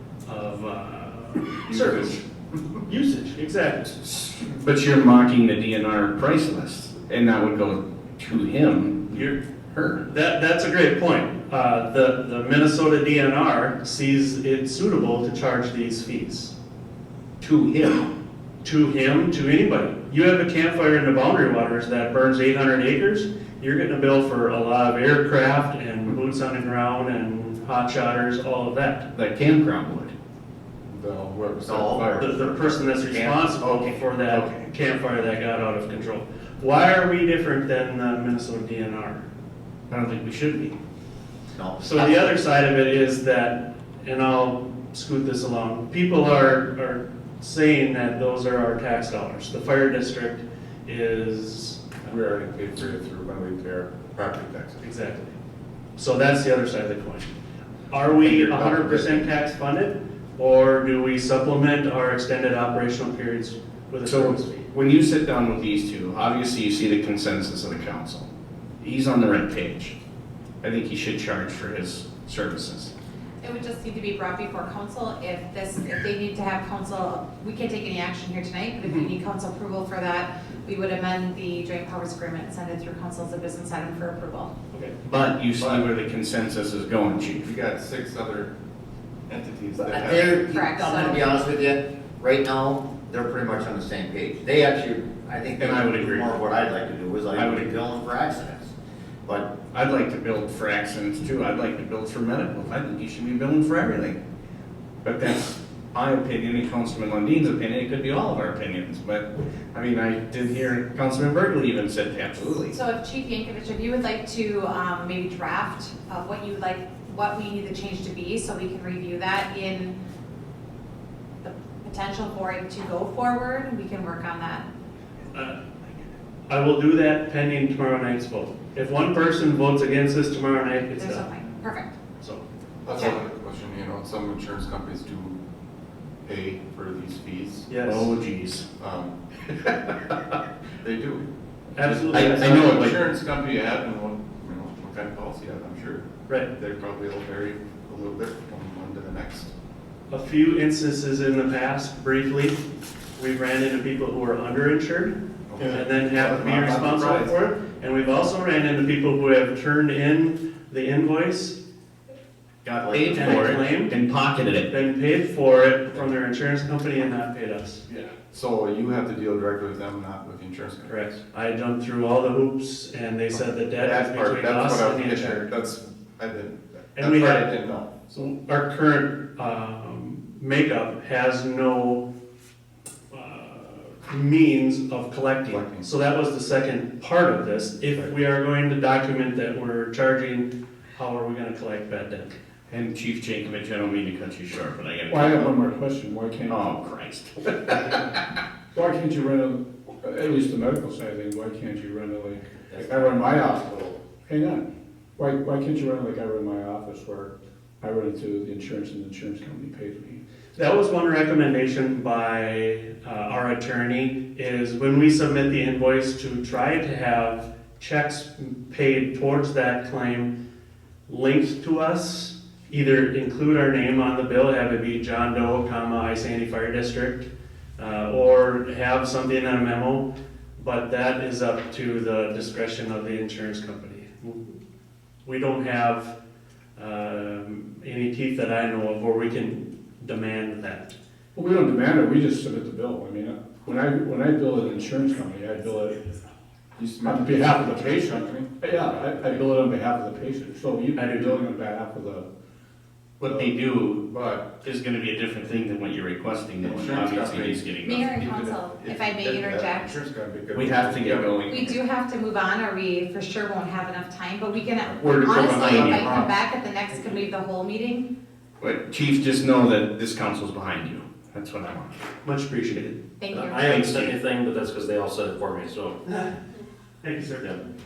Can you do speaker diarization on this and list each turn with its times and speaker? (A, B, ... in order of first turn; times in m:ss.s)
0:00.2-0:02.2 A
0:01.7-0:02.8 B
0:02.8-0:04.0 A
0:04.0-0:10.0 C
0:10.1-0:16.5 A
0:17.4-0:18.1 C
0:18.6-0:29.1 A
0:29.1-0:30.1 C
0:30.9-0:33.0 B
0:31.6-0:32.2 D
0:32.2-0:39.2 A
0:33.1-0:34.7 C
0:39.9-0:40.8 C
0:41.5-0:42.2 D
0:41.8-0:51.8 A
0:52.0-0:54.8 B
0:54.8-0:55.4 A
0:56.0-0:57.3 A
0:57.9-1:04.7 A
0:58.2-0:59.2 C
1:04.1-1:08.3 C
1:08.8-1:10.0 C
1:10.6-1:12.9 C
1:13.4-1:24.5 E
1:18.8-1:19.1 A
1:25.0-1:27.5 C
1:25.6-1:25.9 B
1:27.4-1:28.5 B
1:29.3-1:30.6 B
1:29.8-1:38.7 D
1:30.4-1:31.4 E
1:35.6-1:36.4 C
1:37.3-1:37.8 C
1:39.2-1:39.6 D
1:39.7-1:44.2 C
1:45.0-1:52.8 C
1:52.7-1:59.9 E
2:01.4-2:04.7 E
2:05.3-2:05.6 A
2:06.5-2:11.2 A
2:11.0-2:12.0 E
2:12.8-2:15.4 B
2:12.9-2:13.2 E
2:16.2-2:17.7 B
2:17.7-2:18.1 A
2:17.8-2:18.6 C
2:18.8-2:19.1 B
2:20.8-2:21.3 B
2:21.8-2:22.9 A
2:21.8-2:26.0 B
2:22.1-2:23.0 C
2:26.6-2:29.5 B
2:30.1-2:32.6 A
2:33.2-2:41.6 A
2:35.5-2:37.4 B
2:42.6-2:44.7 C
2:42.8-2:43.5 D
2:43.1-2:44.0 A
2:44.7-2:47.8 A
2:47.9-2:51.1 B
2:50.9-2:55.5 A
2:53.8-2:58.0 B
2:57.0-2:57.5 A
2:58.1-3:02.0 A
3:03.1-3:12.4 A
3:05.5-3:05.9 B
3:12.7-3:15.5 C
3:15.1-3:16.6 F
3:16.5-3:18.1 C
3:18.7-3:24.6 F
3:25.2-3:30.2 F
3:30.6-3:40.3 A
3:41.1-3:50.0 A
3:50.6-3:54.5 A
3:55.2-3:56.1 A
3:56.8-4:00.9 A
4:01.3-4:06.0 F
4:06.8-4:09.5 B
4:07.0-4:12.3 F
4:11.0-4:11.4 A
4:13.2-4:18.2 C
4:14.1-4:14.4 B
4:16.6-4:21.4 B
4:17.8-4:20.0 E
4:20.5-4:21.8 C
4:21.5-4:28.1 E
4:25.0-4:26.3 C
4:28.6-4:32.0 C
4:32.2-4:33.0 A
4:33.2-4:33.8 E
4:33.3-4:36.0 G
4:33.6-4:34.2 C
4:36.1-4:36.3 A
4:37.0-4:37.6 A